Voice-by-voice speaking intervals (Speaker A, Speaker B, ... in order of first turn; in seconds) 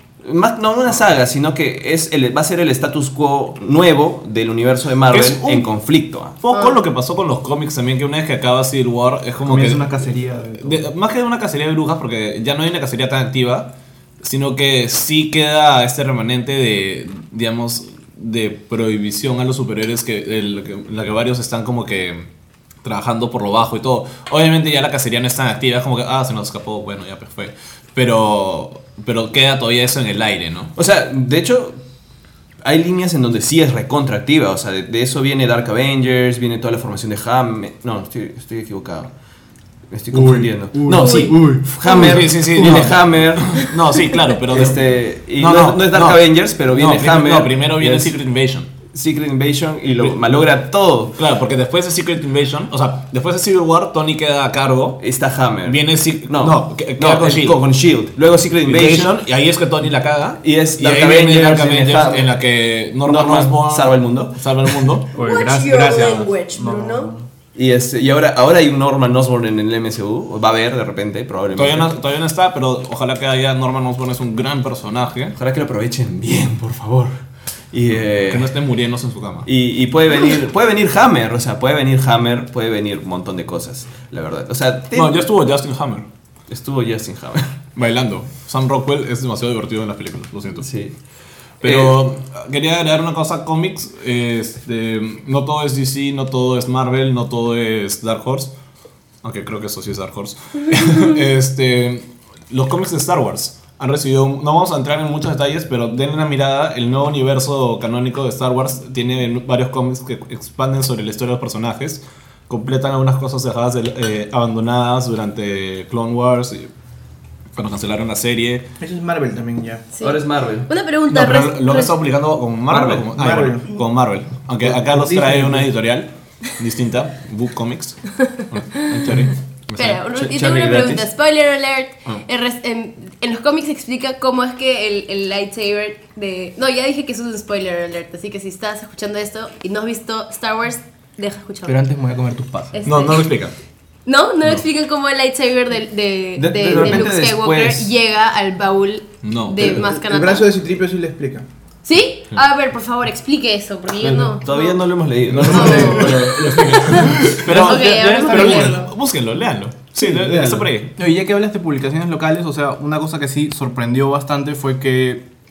Speaker A: 0.2-6.4, 30.8-31.8, 32.6-39.1, 39.9-43.7, 44.5-48.2, 48.9-51.2, 55.0-59.1, 60.4-62.3, 63.0-64.8, 67.5-71.9, 75.4-77.1, 77.7-78.5, 79.5-85.2, 86.5-87.5, 90.6-91.0, 91.6-92.1, 120.0-120.7, 122.7-123.1, 130.1-131.1, 146.4-147.9, 154.4-157.7, 160.2-160.5
Speaker B: 5.1-5.7, 6.4-9.9, 10.6-22.3, 22.8-30.7, 41.9-44.8, 45.4-48.7, 51.1-55.0, 55.7-57.6, 58.6-65.1, 71.5-75.4, 78.2-79.5, 84.9-86.1, 87.8-90.7, 91.6-98.5, 99.2-116.7, 117.5-118.6, 121.1-130.0, 142.8-143.5, 149.2-149.8, 155.3-160.9
Speaker C: 6.5-6.8, 40.9-42.0, 65.2-67.1, 119.9-122.0, 128.2-129.1, 129.8-141.8, 142.7-143.4, 144.1-150.5, 151.8-154.8, 155.4-158.9
Speaker D: 9.4-10.9, 40.1-41.7, 65.1-67.2, 141.6-142.8, 155.3-158.8, 160.0-165.3
Speaker E: 118.8-119.8, 123.1-123.8, 124.7-125.6, 149.7-151.5